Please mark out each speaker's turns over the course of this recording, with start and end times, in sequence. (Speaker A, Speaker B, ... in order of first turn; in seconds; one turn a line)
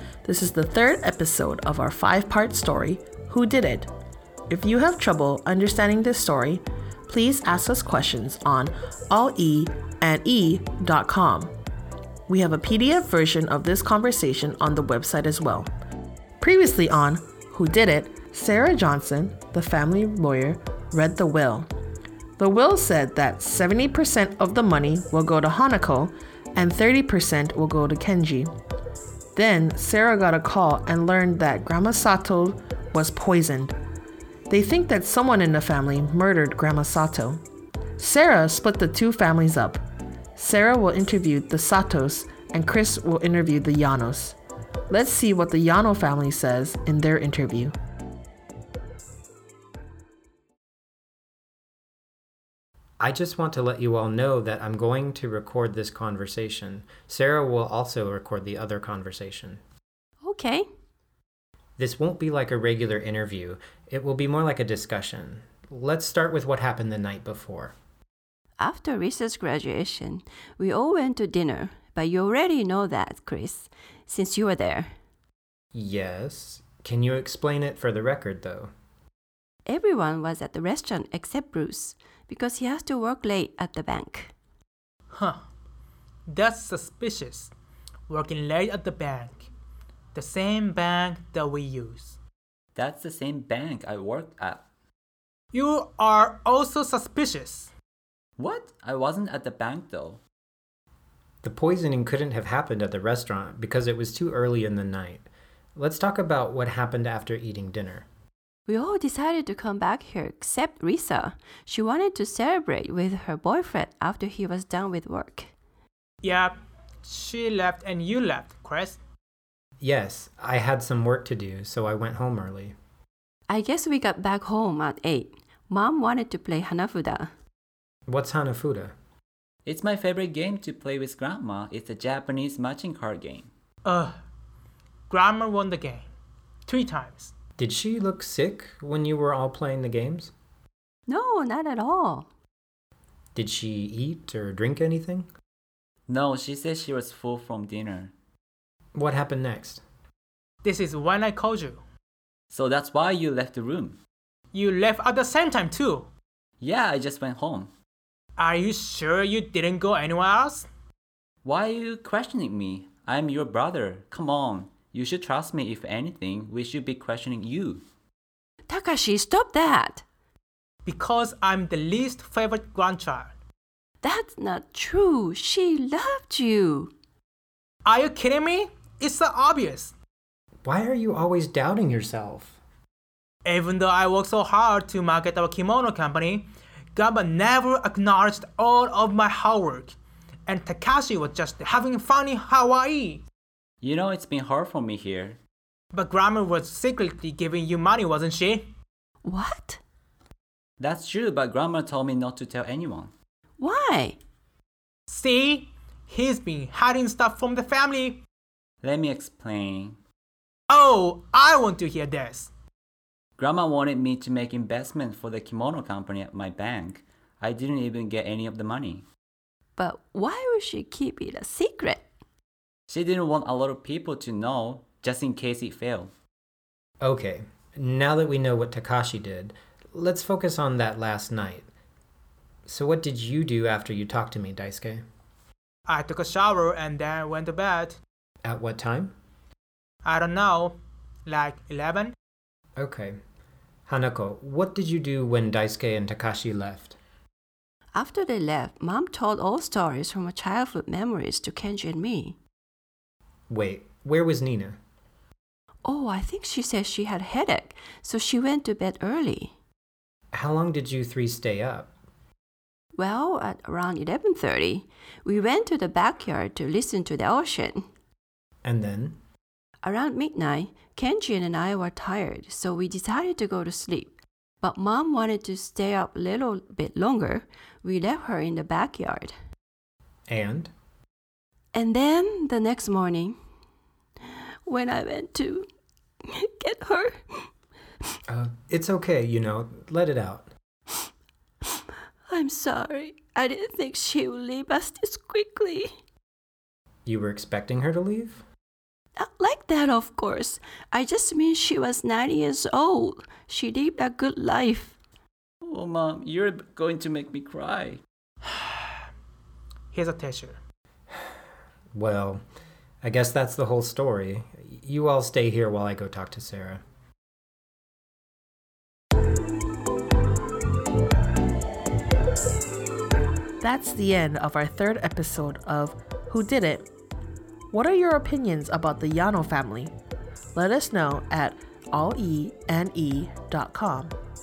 Speaker A: 0.2-3.9
Speaker A: 4.5-11.5
Speaker A: 12.3-15.7
Speaker A: 16.4-21.7
Speaker A: 22.4-28.5
Speaker A: 29.4-33.8
Speaker A: 34.5-37.4
Speaker A: 38.0-39.8
Speaker A: 40.4-44.4
Speaker A: 44.9-47.8
Speaker B: 53.0-59.6
Speaker C: 60.2-60.7
Speaker B: 61.8-67.8
Speaker C: 68.6-74.9
Speaker B: 75.7-78.7
Speaker C: 79.7-84.3
Speaker D: 85.1-85.4
Speaker D: 86.3-87.5
Speaker D: 88.1-89.5
Speaker D: 90.1-92.2
Speaker E: 92.8-94.6
Speaker D: 95.5-97.7
Speaker E: 98.4-100.2
Speaker B: 101.4-108.1
Speaker C: 108.7-115.5
Speaker D: 116.2-119.0
Speaker B: 119.8-122.7
Speaker C: 123.5-127.3
Speaker B: 128.1-128.9
Speaker E: 129.6-133.5
Speaker D: 133.8-134.1
Speaker D: 135.1-136.1
Speaker D: 136.7-137.3
Speaker B: 137.6-140.3
Speaker C: 141.1-142.3
Speaker B: 143.3-145.3
Speaker E: 146.1-148.1
Speaker B: 148.9-149.8
Speaker D: 150.6-151.8
Speaker E: 152.5-154.0
Speaker D: 154.5-156.1
Speaker E: 156.6-157.7
Speaker D: 158.4-160.7
Speaker E: 161.4-167.8
Speaker C: 168.7-170.0
Speaker D: 170.8-173.3
Speaker C: 174.0-176.9
Speaker D: 177.8-179.9
Speaker B: 180.6-182.5
Speaker D: 183.4-189.9
Speaker D: 190.5-193.2
Speaker E: 193.8-195.4
Speaker D: 195.9-198.7
Speaker C: 199.2-199.8
Speaker E: 200.8-203.1
Speaker C: 203.6-204.2
Speaker D: 205.1-208.2
Speaker E: 208.8-210.0
Speaker D: 210.7-212.5
Speaker E: 213.4-219.0
Speaker C: 219.8-222.0
Speaker E: 222.9-226.1
Speaker B: 227.0-231.7
Speaker B: 232.7-235.0
Speaker D: 235.8-238.0
Speaker B: 238.4-239.1
Speaker D: 240.0-242.1
Speaker B: 242.8-243.2
Speaker B: 243.9-247.0
Speaker C: 247.9-252.4
Speaker B: 253.5-254.8
Speaker C: 255.8-259.5
Speaker B: 260.3-261.9
Speaker C: 262.9-267.8
Speaker B: 268.6-269.2
Speaker C: 269.8-279.3
Speaker B: 280.3-280.7
Speaker C: 281.7-283.3
Speaker C: 284.6-285.7
Speaker C: 286.3-287.2
Speaker B: 288.3-290.5
Speaker C: 292.3-295.9
Speaker B: 297.1-298.4
Speaker C: 299.2-304.9
Speaker E: 305.6-308.0
Speaker D: 308.4-309.0
Speaker D: 309.9-310.6
Speaker B: 311.9-312.4
Speaker B: 313.0-316.8
Speaker A: 323.6-326.9
Speaker A: 327.7-329.9
Speaker A: 330.6-334.1